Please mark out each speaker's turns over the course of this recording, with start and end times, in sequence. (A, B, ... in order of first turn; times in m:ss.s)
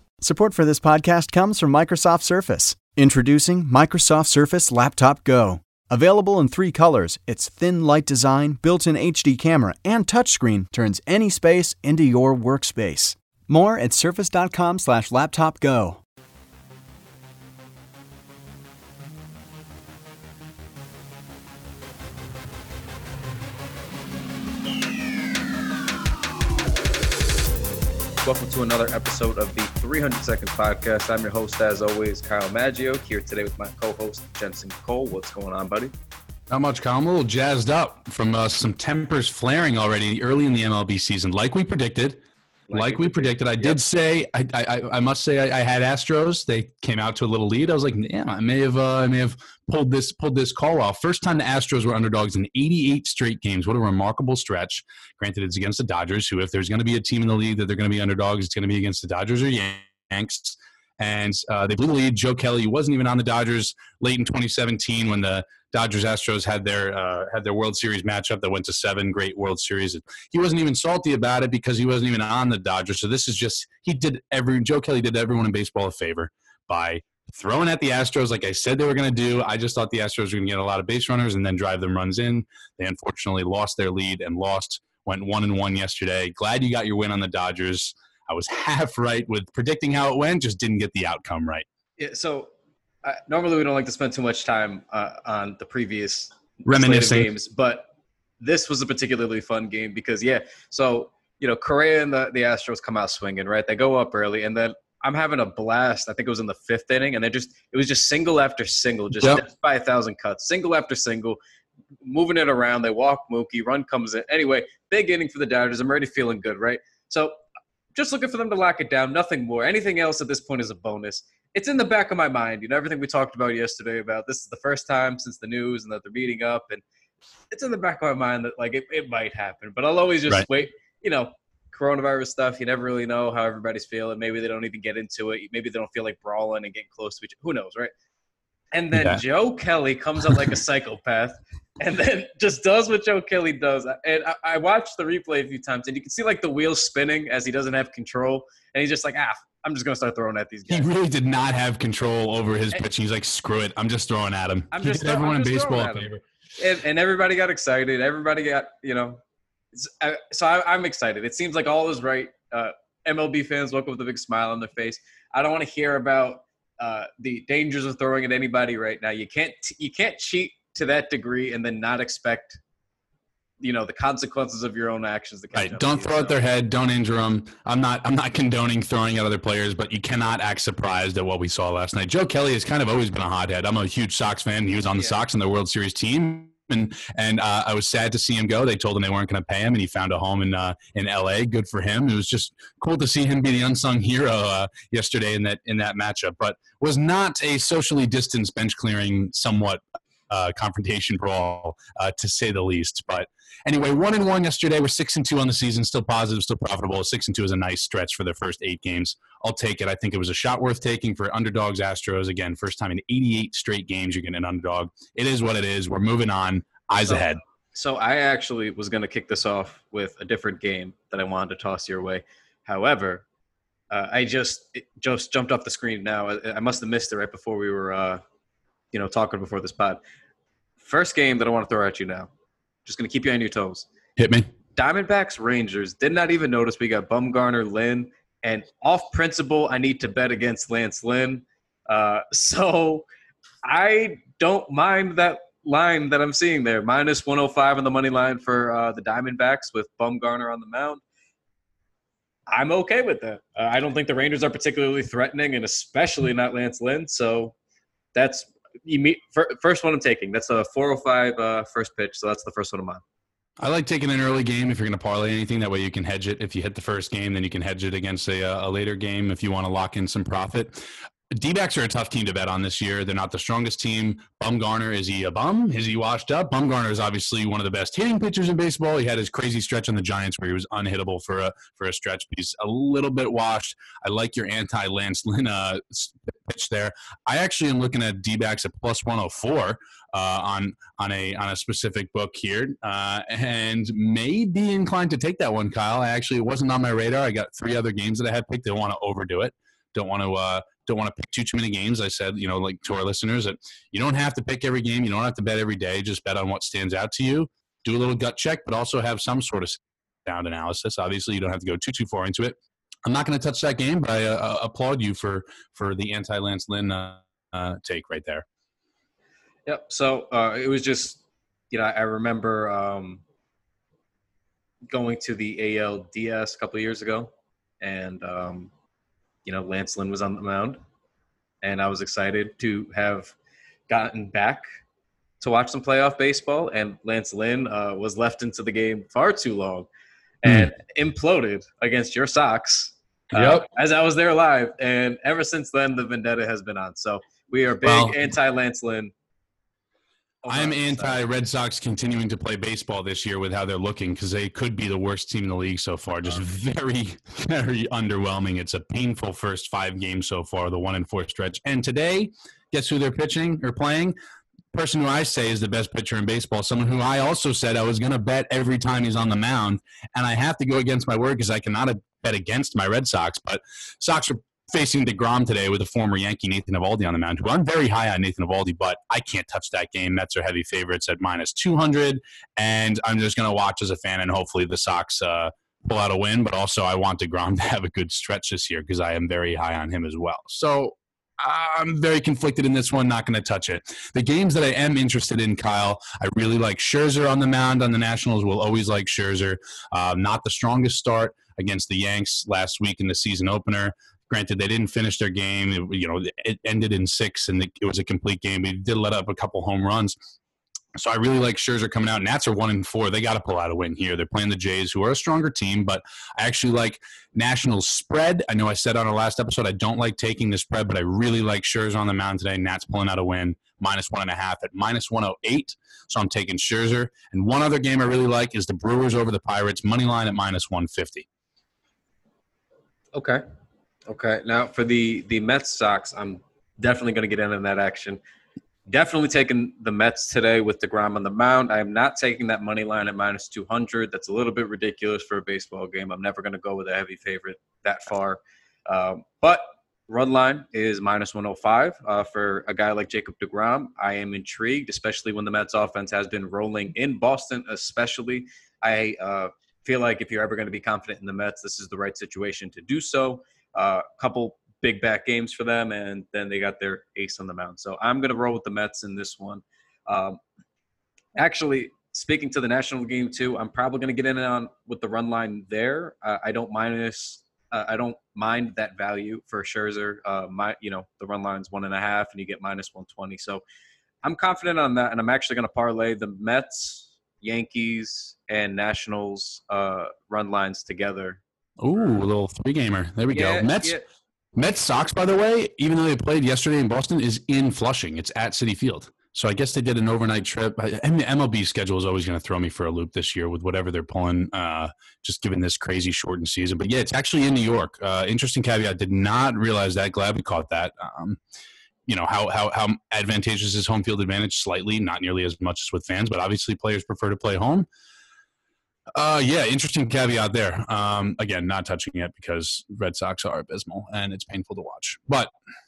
0:00.2-0:16.0 A
0:28.2-0:35.9 B
0:36.5-0:42.2 C
0:42.7-0:43.8 B
0:42.7-1:31.6 C
1:32.0-1:32.5 B
1:33.0-1:37.9 B
1:36.6-1:37.3 C
1:38.4-1:51.4 B
1:49.2-1:49.4 C
1:52.0-1:57.4 B
1:57.9-2:06.8 B
2:07.5-2:17.9 B
2:18.7-2:30.9 B
2:18.9-2:19.2 C
2:30.7-2:36.2 C
2:34.7-2:39.2 B
2:39.7-2:52.6 B
2:53.6-2:56.4 B
2:55.5-3:37.4 C
3:04.9-3:05.2 B
3:37.0-3:43.2 B
3:43.9-3:48.2 B
3:48.9-3:50.0 B
3:50.8-3:52.3 B
3:52.8-3:53.9 B
3:54.2-3:54.5 C
3:54.8-4:03.0 B
4:03.6-4:11.0 B
4:12.5-4:17.5 B
4:18.1-4:23.0 B
4:23.6-5:18.4 C
5:19.6-5:23.2 B
5:24.9-5:28.7 B
5:29.4-5:30.8 B
5:31.6-5:33.3 B
5:33.9-5:34.6 B
5:35.4-5:39.9 B
5:40.4-5:49.1 B
5:40.4-5:40.7 C
5:43.3-5:43.7 C
5:47.8-5:48.2 C
5:50.4-5:51.3 B
5:50.4-6:04.1 C
6:04.7-6:50.1 C
6:51.0-7:11.2 C
7:13.1-7:13.4 B
7:14.1-7:18.2 B
7:18.9-7:50.4 B
7:51.3-8:03.6 B
8:04.2-8:11.4 B
8:11.8-8:14.0 C
8:13.3-8:14.0 B
8:14.6-8:31.4 C
8:32.1-8:37.8 C
8:39.1-8:45.5 C